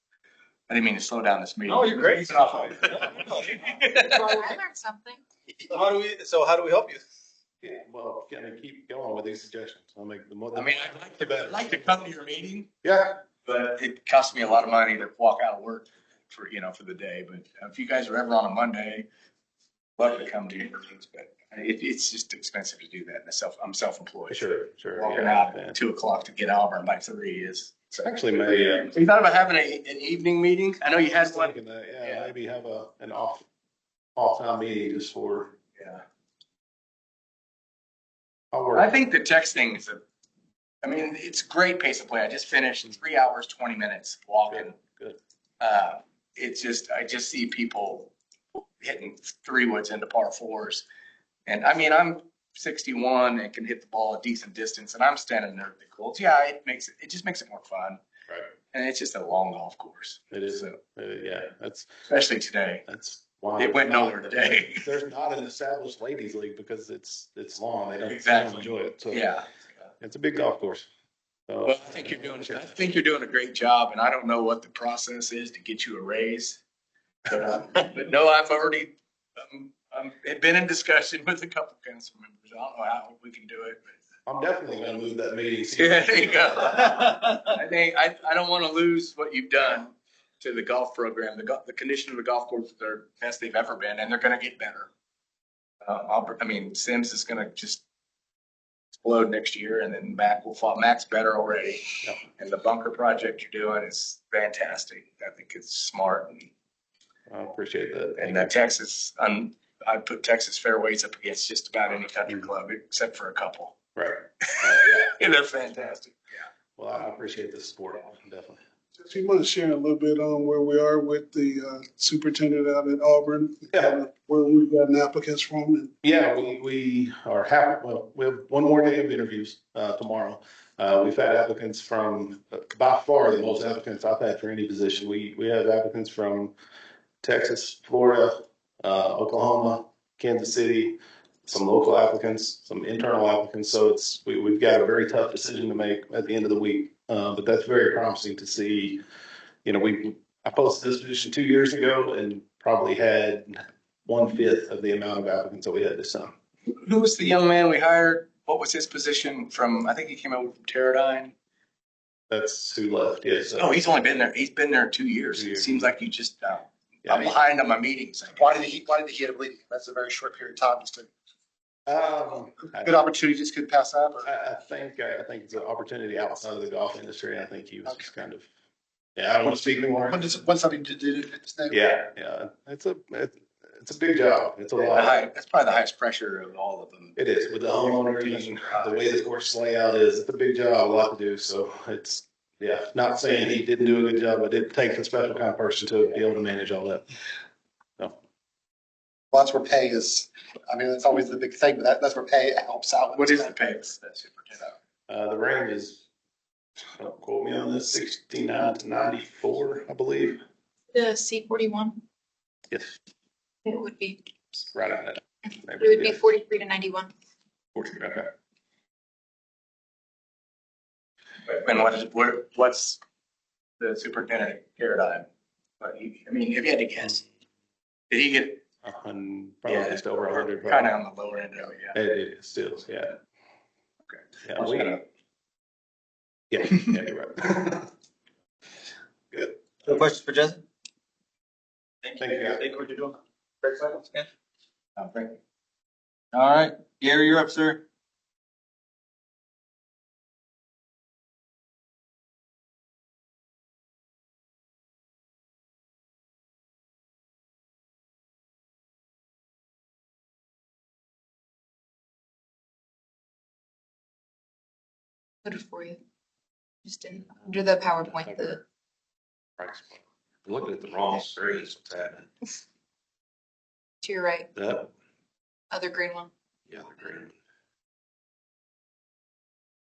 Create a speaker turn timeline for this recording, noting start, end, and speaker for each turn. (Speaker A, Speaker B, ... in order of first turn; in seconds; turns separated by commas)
Speaker A: 0.7-4.4, Speaker B: 1.6-3.5, Speaker C: 3.9-5.2, Speaker B: 5.5-7.1, Speaker D: 7.6-12.1, Speaker A: 10.5-12.7, Speaker D: 12.8-13.2, Speaker A: 13.4-19.1, Speaker A: 20.0-32.3, Speaker D: 24.3-25.8, Speaker D: 28.0-28.9, Speaker D: 31.2-33.5, Speaker D: 34.2-35.5, Speaker A: 35.8-36.0, Speaker D: 38.5-39.0, Speaker A: 38.8-40.0, Speaker A: 40.8-44.8, Speaker D: 44.5-45.2, Speaker A: 45.6-48.1, Speaker A: 48.8-50.9, Speaker A: 51.5-58.0, Speaker A: 58.7-60.8, Speaker D: 60.3-61.9, Speaker A: 62.1-62.9, Speaker D: 62.9-69.3, Speaker A: 63.6-64.8, Speaker A: 68.1-69.5, Speaker D: 70.0-70.9, Speaker D: 71.5-72.8, Speaker A: 71.7-76.6, Speaker A: 77.3-83.9, Speaker D: 84.3-86.8, Speaker A: 85.8-94.9, Speaker A: 95.8-97.8, Speaker A: 99.0-106.5, Speaker D: 107.3-108.5, Speaker A: 108.2-113.8, Speaker D: 114.0-116.0, Speaker A: 114.7-116.2, Speaker D: 116.8-118.6, Speaker E: 119.0-125.9, Speaker D: 126.0-136.5, Speaker D: 137.2-149.0, Speaker D: 149.7-156.3, Speaker A: 156.8-161.3, Speaker D: 162.3-163.8, Speaker A: 163.6-168.7, Speaker D: 165.3-165.9, Speaker D: 167.1-167.4, Speaker F: 168.3-171.1, Speaker D: 171.9-172.9, Speaker F: 172.8-174.3, Speaker D: 174.2-178.5, Speaker D: 179.2-180.3, Speaker F: 180.1-181.8, Speaker D: 181.7-185.2, Speaker A: 184.8-187.2, Speaker D: 187.2-197.1, Speaker A: 188.2-188.9, Speaker F: 199.3-203.6, Speaker A: 203.1-204.8, Speaker D: 205.1-206.0, Speaker D: 207.0-210.4, Speaker C: 210.9-212.0, Speaker D: 212.7-213.0, Speaker C: 213.7-214.2, Speaker D: 214.7-216.2, Speaker C: 215.8-217.1, Speaker D: 217.8-218.3, Speaker A: 221.5-223.0, Speaker A: 223.8-225.3, Speaker A: 225.8-227.2, Speaker A: 228.1-228.6, Speaker D: 228.8-230.9, Speaker A: 229.7-232.0, Speaker D: 231.9-233.2, Speaker A: 234.1-235.0, Speaker D: 234.4-235.0, Speaker D: 236.5-237.9, Speaker D: 239.3-239.6, Speaker B: 239.9-240.7, Speaker B: 242.0-244.3, Speaker D: 242.2-242.6, Speaker A: 245.0-245.4, Speaker B: 246.3-247.8, Speaker C: 265.4-266.0, Speaker C: 266.9-268.6, Speaker D: 268.1-268.6, Speaker D: 269.6-272.3, Speaker C: 274.0-274.5, Speaker D: 274.6-274.9, Speaker C: 275.7-276.3, Speaker D: 276.7-277.3